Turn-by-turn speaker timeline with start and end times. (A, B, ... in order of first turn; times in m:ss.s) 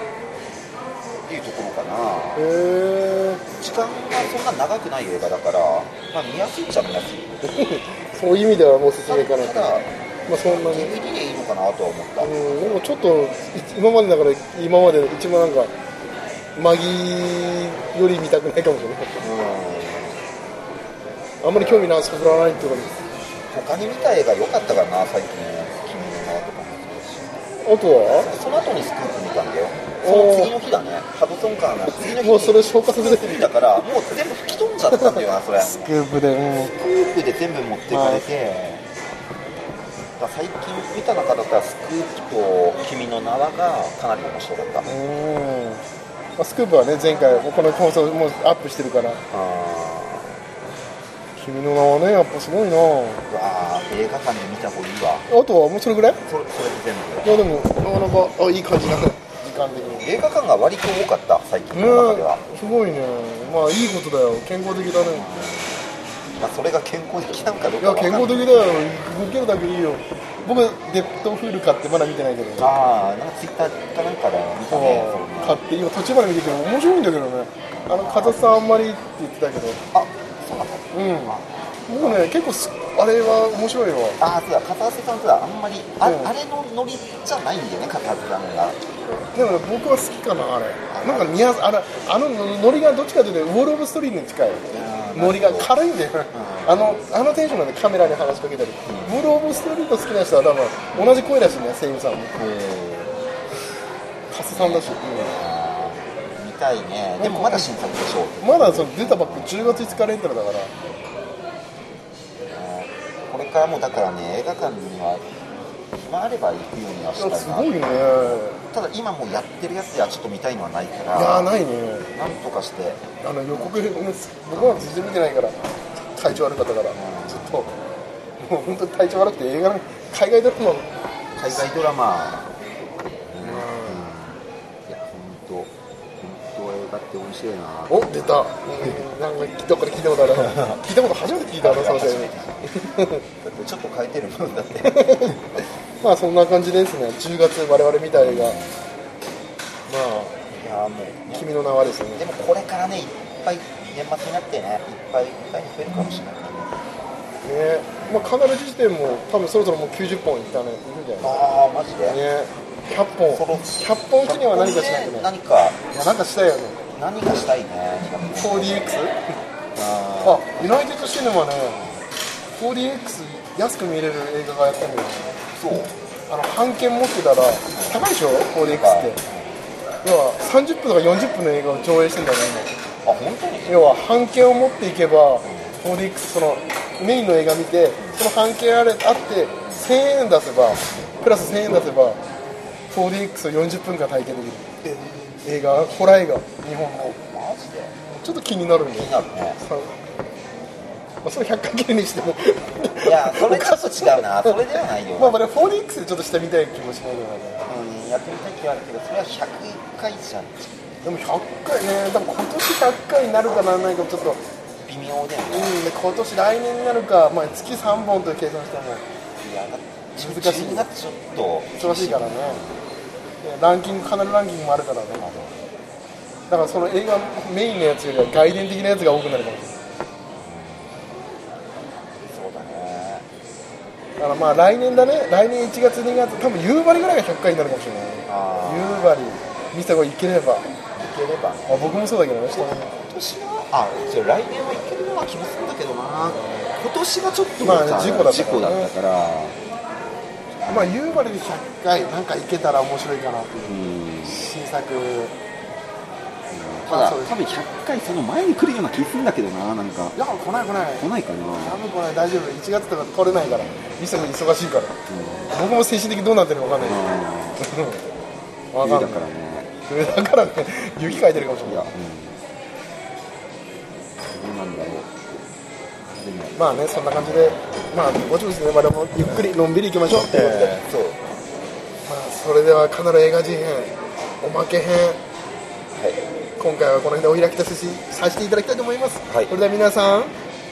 0:01.2-0:02.4 A
0:02.4-0:03.4 B
0:03.6-0:07.4 A
0:07.4-0:10.9 B
0:09.1-0:09.9 A
0:10.4-0:12.3 A
0:12.2-0:15.7 B
0:16.6-0:19.2 B
0:19.2-0:20.2 A
0:21.4-0:23.0 B
0:21.5-0:21.9 A
0:23.5-0:27.4 A
0:27.6-0:28.3 B
0:28.2-0:36.0 A
0:30.0-0:30.5 B
0:32.1-0:33.4 B
0:34.9-0:36.7 B
0:36.5-0:38.8 A
0:37.9-0:38.3 B
0:40.2-0:45.0 A
0:44.9-0:45.8 B
0:46.4-0:49.2 B
0:47.2-0:47.8 A
0:49.3-0:50.4 A
0:51.4-0:53.2 B
0:53.3-0:55.3 A
0:55.3-0:56.2 B
0:56.2-0:57.4 A
0:57.2-1:00.1 B
0:59.9-1:02.4 A
1:01.7-1:05.2 B
1:04.9-1:05.9 A
1:06.4-1:08.9 A
1:07.8-1:12.7 B
1:12.6-1:15.6 A
1:14.7-1:19.8 B
1:17.8-1:18.4 A
1:19.9-1:22.3 A
1:20.9-1:24.2 B
1:24.2-1:28.8 A
1:26.0-1:26.3 B
1:29.3-1:42.4 B
1:30.9-1:31.6 A
1:34.7-1:35.7 A
1:36.3-1:37.1 A
1:38.8-1:39.3 A
1:40.9-1:41.3 A
1:42.3-1:43.2 A
1:44.3-1:45.4 B
1:44.5-1:50.1 A
1:47.2-1:47.7 B
1:48.4-1:50.7 B
1:52.4-1:55.2 A
1:56.0-1:57.8 A
1:57.2-1:58.6 B
1:58.7-2:01.5 A
2:01.1-2:02.1 B
2:02.1-2:03.8 A
2:03.2-2:05.6 B
2:04.6-2:04.9 A
2:06.1-2:07.7 B
2:06.9-2:07.6 A
2:08.4-2:10.9 B
2:11.4-2:19.0 A
2:13.4-2:14.1 B
2:17.9-2:23.2 B
2:20.2-2:20.8 A
2:21.6-2:22.7 A
2:23.4-2:25.6 A
2:24.8-2:25.4 B
2:26.0-2:28.6 B
2:28.1-2:28.8 A
2:29.9-2:30.4 B
2:30.5-2:31.5 A
2:31.3-2:32.2 B
2:32.1-2:36.8 A
2:37.4-2:41.4 B
2:41.2-2:42.2 A
2:42.1-2:45.3 B
2:43.2-2:45.9 A
2:45.9-2:46.8 B
2:46.9-2:48.9 A
2:48.3-2:49.2 B
2:49.7-2:50.4 A
2:50.2-2:51.8 B
2:51.7-2:52.0 A
2:52.5-2:55.3 B
2:55.5-2:55.9 A
2:56.3-2:59.2 B
2:57.7-2:58.0 A
2:58.6-2:59.6 A
3:00.0-3:02.7 B
3:03.0-3:03.9 A
3:03.7-3:12.2 B
3:05.4-3:05.8 A
3:12.9-3:14.7 B
3:14.8-3:15.2 A
3:15.4-3:17.2 B
3:17.0-3:18.0 A
3:18.1-3:19.9 B
3:18.9-3:19.6 A
3:21.2-3:27.6 B
3:23.0-3:25.4 A
3:27.7-3:31.0 A
3:31.0-3:34.4 B
3:34.8-3:35.9 A
3:35.5-3:39.0 B
3:39.4-3:42.8 A
3:40.2-3:40.9 B
3:41.8-3:42.6 B
3:43.4-3:45.3 B
3:45.2-3:45.7 A
3:46.5-3:49.8 B
3:50.3-3:51.1 A
3:52.2-3:53.3 A
3:54.2-4:00.7 B
3:58.3-3:59.2 A
4:00.9-4:09.6 A
4:01.7-4:02.9 B
4:06.4-4:06.7 B
4:07.6-4:08.9 B
4:10.6-4:11.0 A
4:10.7-4:15.4 B
4:13.7-4:14.4 A
4:16.5-4:20.2 A
4:16.9-4:17.4 B
4:20.1-4:21.1 B
4:21.0-4:21.8 A
4:21.6-4:25.0 B
4:23.6-4:24.0 A
4:25.1-4:25.6 A
4:25.5-4:27.1 B
4:26.8-4:27.7 A
4:27.6-4:28.0 B
4:28.7-4:29.3 B
4:28.8-4:29.7 A
4:29.9-4:31.9 B
4:31.0-4:32.4 A
4:34.3-4:35.1 A
4:36.1-4:37.7 A
4:36.6-4:40.8 B
4:40.1-4:41.2 A
4:42.1-4:45.2 B
4:46.6-4:50.3 B